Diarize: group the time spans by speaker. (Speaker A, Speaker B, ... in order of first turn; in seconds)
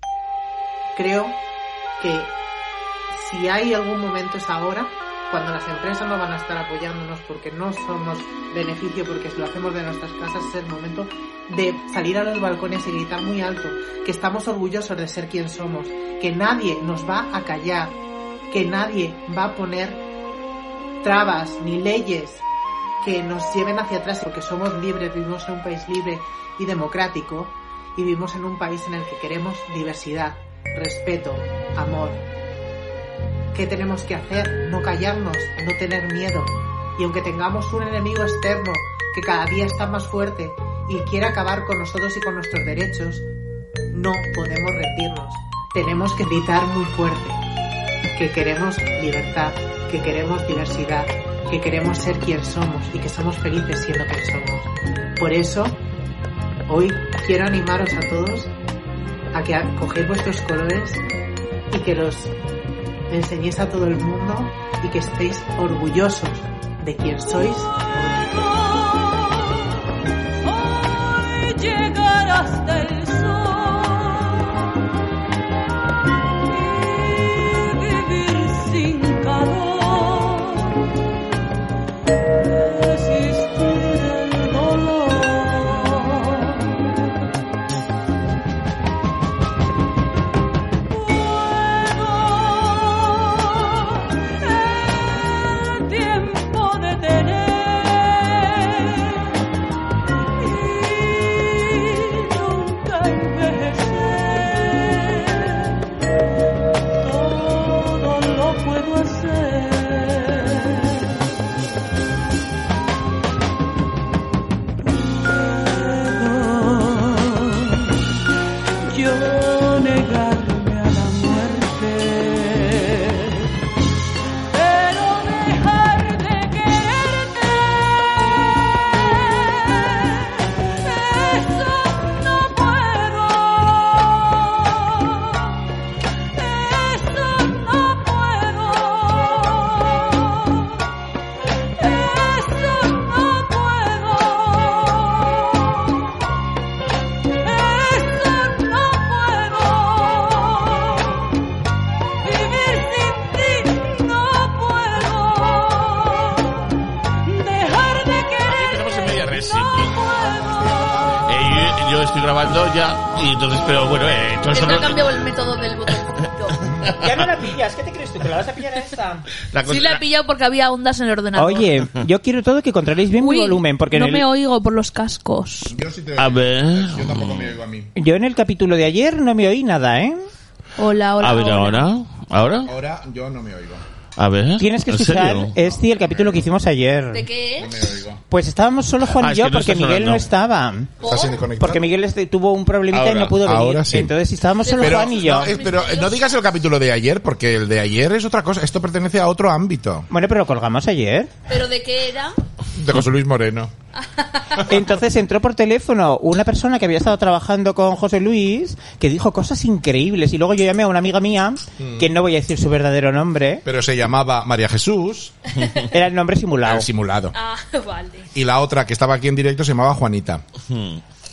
Speaker A: 0.9-1.4, 2.0-2.4, 3.1-18.0, 18.5-20.1, 21.0-22.4, 23.0-32.2, 33.5-43.3, 43.9-47.4, 48.1-55.8, 56.7-58.5, 59.3-61.0, 61.7-62.3, 63.1-68.4
Speaker B: 68.3-69.7, 70.5-74.7, 76.5-80.9, 82.4-86.8, 90.9-99.4, 100.3-105.8, 107.0-111.2, 115.0-118.0, 118.8-123.5, 124.5-135.6, 136.4-140.7, 141.8-145.9, 147.4-151.3, 152.2-156.7, 157.2-160.2
Speaker C: 158.4-160.0, 161.1-165.2, 166.7-167.4, 169.4-170.0, 176.2-177.5, 181.2-182.7, 184.2-185.6, 189.1-190.3, 220.7-221.0
Speaker D: 164.5-166.6, 169.7-171.7, 173.2-175.7, 180.8-181.8, 187.1-187.8, 191.0-191.4, 194.6-196.3, 201.5-202.3, 204.1-204.6, 217.3-218.3
Speaker E: 167.0-169.2, 171.3-174.2, 177.9-180.2, 184.6-187.3, 188.3-190.9, 191.6-195.5, 200.1-201.3, 204.7-213.6, 215.9-216.9
Speaker F: 175.7-177.9, 182.7-183.8, 185.6-186.4, 187.6-188.2, 191.0-191.8, 192.9-194.2, 194.8-200.1, 202.8-203.7, 211.8-212.1, 213.7-215.3, 216.6-217.3, 218.3-220.4